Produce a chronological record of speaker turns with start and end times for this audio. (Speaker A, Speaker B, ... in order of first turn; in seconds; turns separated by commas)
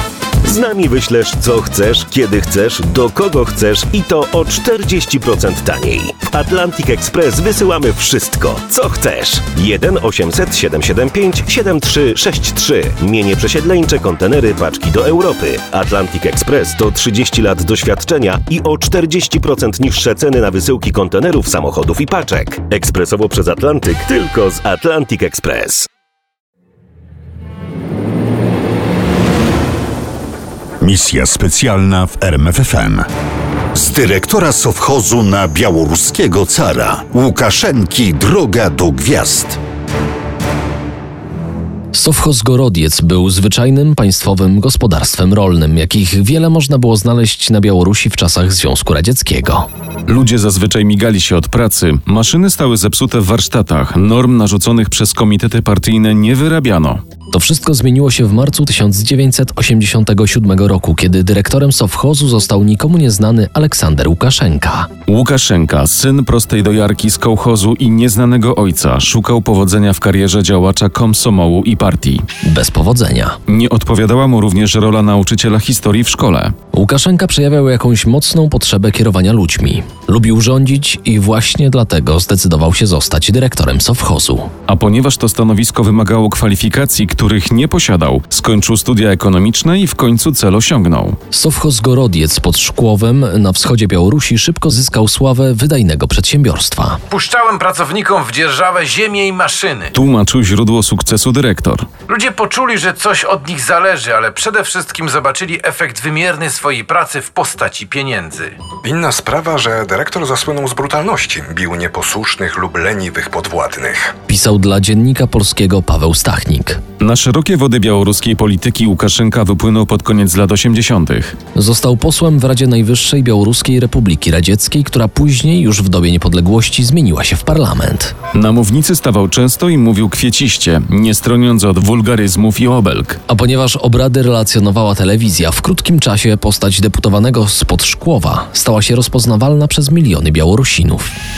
Speaker A: 0.4-25.9, Speaker B: 30.8-33.1, Speaker B: 33.7-39.6, Speaker C: 41.9-49.7, Speaker D: 50.1-57.0, Speaker C: 57.3-64.9, Speaker D: 65.1-72.2, Speaker C: 72.5-73.4, Speaker D: 73.5-76.5, Speaker C: 76.7-84.5, Speaker D: 84.7-91.2, Speaker C: 91.3-97.0, Speaker E: 97.1-99.9, Speaker D: 100.0-101.9, Speaker E: 102.1-108.5, Speaker F: 108.8-114.2, Speaker C: 114.3-116.8, Speaker D: 117.0-121.4, Speaker C: 121.6-128.1, Speaker D: 128.3-133.2, Speaker C: 133.3-141.1